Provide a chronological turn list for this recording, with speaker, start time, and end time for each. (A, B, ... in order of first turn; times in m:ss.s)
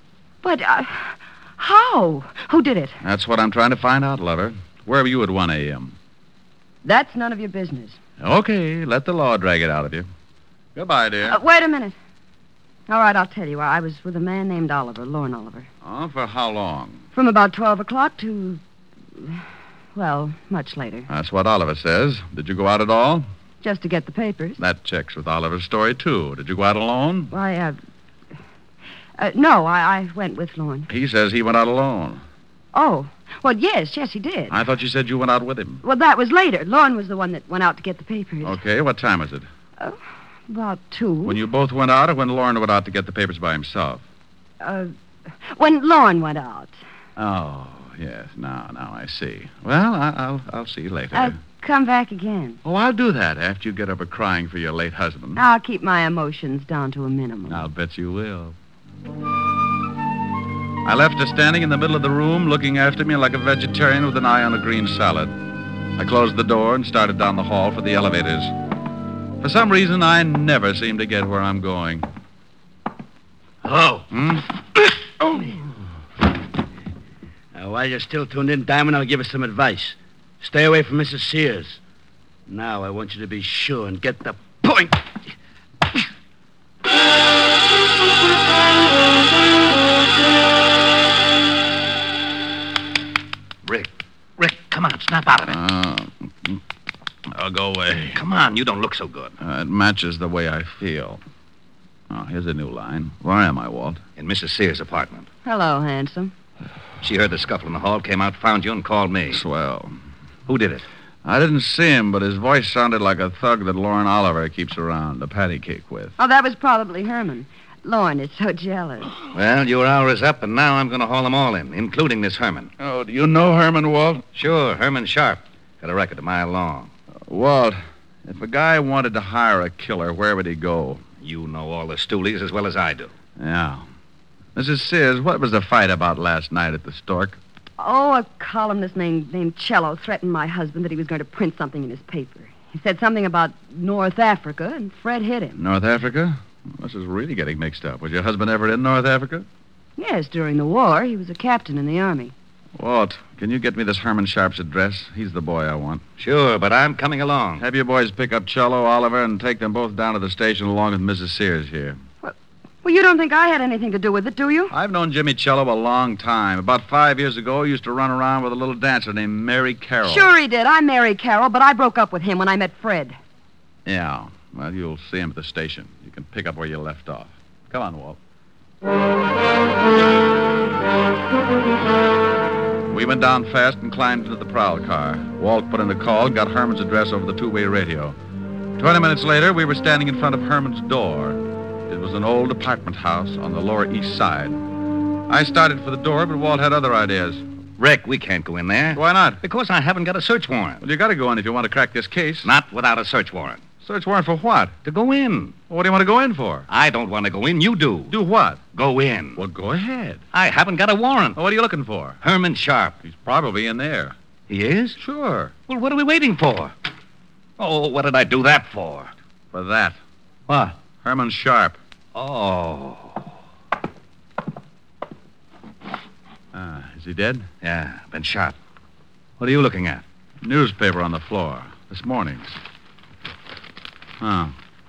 0:00.4-0:03.0 A
0:03.0-0:05.9 B
0:06.8-0:08.0 A
0:08.2-0:10.1 B
0:10.7-0:11.4 B
0:11.2-0:11.9 A
0:12.9-0:15.7 A
0:15.8-0:17.0 B
0:17.1-0:18.6 A
0:19.9-0:21.1 A
0:21.1-0:23.2 B
0:23.6-0:24.6 A
0:24.6-0:27.3 B
0:27.3-0:27.8 A
0:29.2-0:30.9 A
0:30.9-0:32.2 B
0:32.7-0:34.6 A
0:34.5-0:35.8 B
0:35.8-0:38.6 A
0:38.4-0:39.5 B
0:40.5-0:41.4 A
0:41.2-0:44.0 B
0:44.6-0:46.8 A
0:47.2-0:51.4 B
0:51.1-0:52.6 A
0:52.6-0:55.4 B
0:55.4-0:57.6 A
0:57.5-0:58.5 B
1:00.8-1:05.3 B
1:06.0-1:08.5 B
1:09.4-1:12.1 B
1:13.6-1:14.0 C
1:14.1-1:14.5 B
1:15.2-1:15.5 C
1:17.5-1:21.8 C
1:22.5-1:25.2 C
1:33.6-1:35.6 D
1:35.5-1:36.6 B
1:37.3-1:38.2 B
1:38.1-1:39.4 D
1:39.4-1:41.2 B
1:42.1-1:44.0 B
1:44.2-1:45.3 D
1:45.4-1:46.3 A
1:47.0-1:49.4 D
1:49.3-1:49.9 B
1:50.5-1:50.8 D
1:51.2-1:56.1 B
1:56.2-1:59.1 A
1:59.3-2:02.7 D
2:02.8-2:04.2 B
2:04.3-2:06.9 D
2:07.2-2:11.0 B
2:11.2-2:13.1 D
2:13.4-2:13.8 B
2:14.5-2:17.4 B
2:17.8-2:25.6 A
2:25.6-2:29.4 B
2:30.0-2:32.3 A
2:32.8-2:36.0 B
2:36.2-2:37.6 D
2:37.6-2:42.0 B
2:42.2-2:44.7 A
2:44.7-2:50.3 B
2:50.0-2:53.2 A
2:53.8-2:58.2 B
3:02.9-3:08.2 B
3:08.8-3:14.6 B
3:15.3-3:17.4 B
3:17.8-3:20.8 D
3:18.9-3:19.4 B
3:20.8-3:22.5 B
3:22.4-3:23.7 D
3:23.8-3:24.7 B
3:24.8-3:25.6 D
3:25.6-3:26.7 B
3:26.7-3:28.1 D
3:28.1-3:28.6 B
3:28.7-3:29.4 D
3:29.4-3:30.2 B
3:30.3-3:31.4 D
3:31.4-3:32.2 B
3:32.2-3:33.0 D
3:33.0-3:34.1 B
3:34.5-3:35.0 D
3:35.0-3:35.5 B
3:35.7-3:36.7 D
3:37.6-3:39.1 D
3:39.5-3:40.0 B
3:40.5-3:40.8 D
3:40.8-3:41.8 B
3:42.1-3:43.2 D
3:46.5-3:47.5 B
3:47.6-3:48.5 D
3:49.4-3:50.0 D
3:50.4-3:52.5 B
3:54.2-3:54.5 B